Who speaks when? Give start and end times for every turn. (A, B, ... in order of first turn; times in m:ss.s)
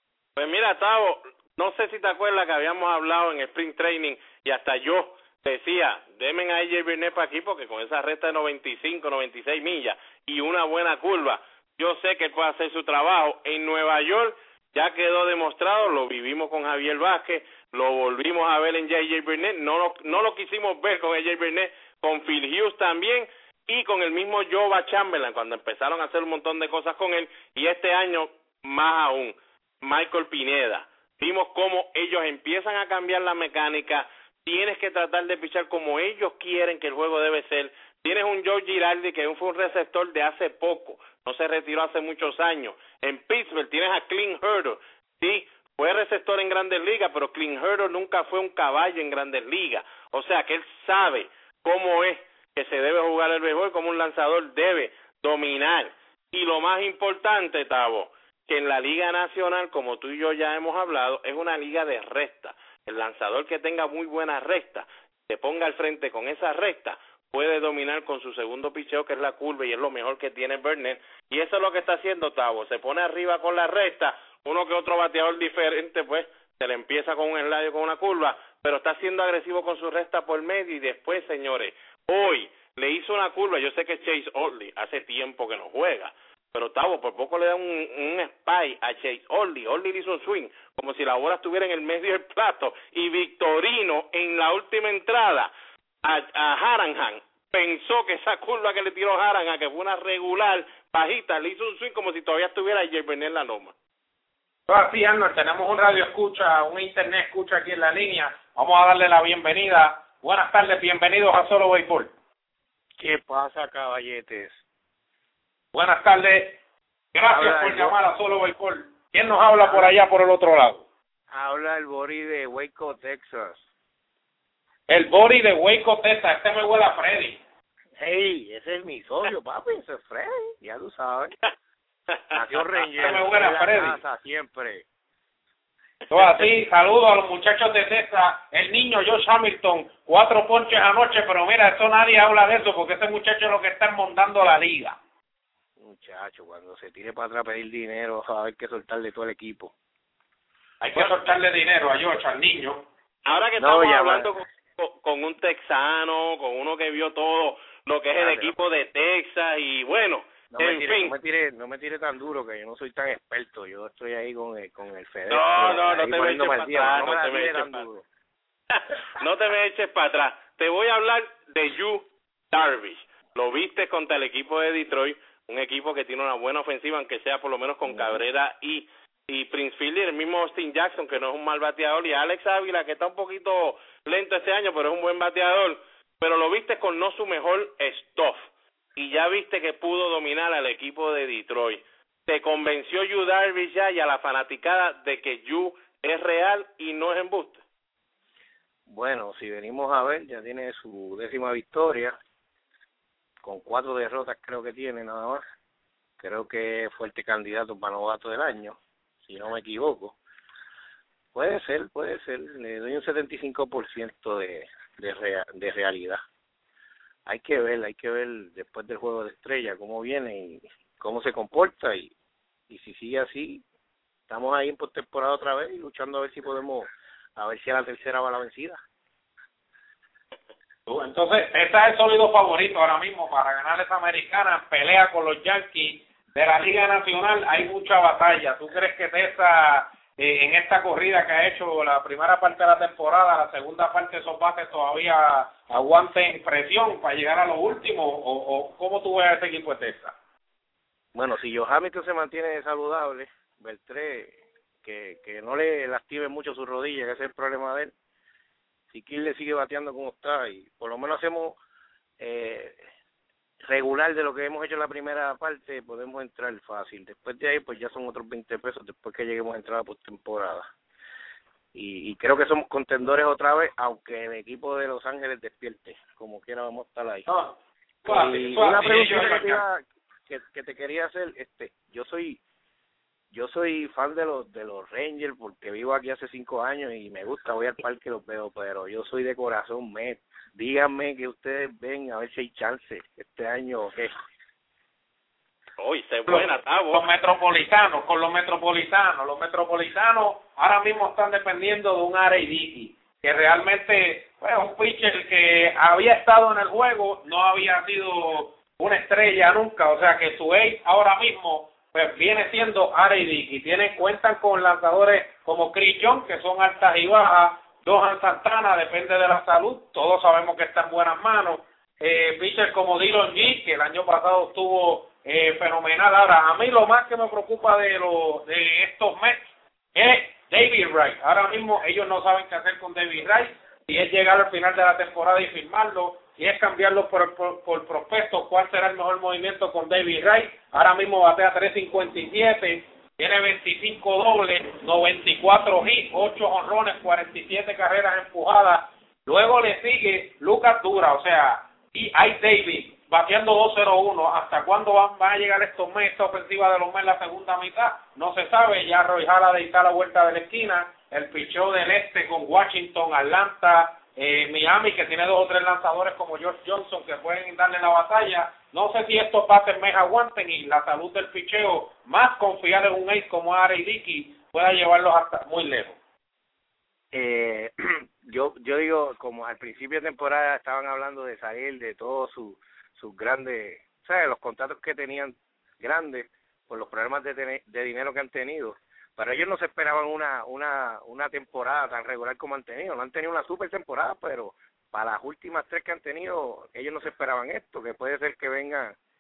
0:00.4-1:35.5 A
1:36.0-1:43.7 A
1:44.7-1:52.1 B
1:53.0-1:54.6 C
1:55.7-1:56.6 B
1:57.1-2:00.8 B
1:57.3-1:58.0 C
1:59.7-1:59.9 C
2:01.3-2:03.6 C
2:04.9-2:07.4 B
2:08.0-2:11.4 C
2:12.3-2:14.9 C
2:13.0-2:14.0 B
2:16.1-2:25.0 B
2:25.8-2:29.7 C
2:30.8-2:32.8 B
2:33.3-2:41.1 A
2:33.6-2:34.3 C
2:38.2-2:38.6 C
2:40.5-2:48.0 C
2:45.3-2:47.8 A
2:48.7-3:08.4 A
2:57.9-2:58.2 C
3:09.0-3:17.6 A
3:18.9-3:22.2 C
3:23.4-3:25.4 C
3:26.2-3:30.2 C
3:31.3-3:36.2 C
3:37.3-3:42.1 C
3:42.7-3:43.6 C
3:44.3-3:48.8 C
3:50.9-4:10.1 B
4:11.1-4:17.9 C
4:18.9-4:21.6 C
4:22.2-4:22.8 C
4:23.7-4:30.7 C
4:31.7-4:37.3 C
4:37.3-4:39.6 B
4:38.1-4:42.4 C
4:43.3-4:54.1 C
4:55.8-4:57.1 A
4:56.3-6:16.0 B
6:17.1-6:39.0 C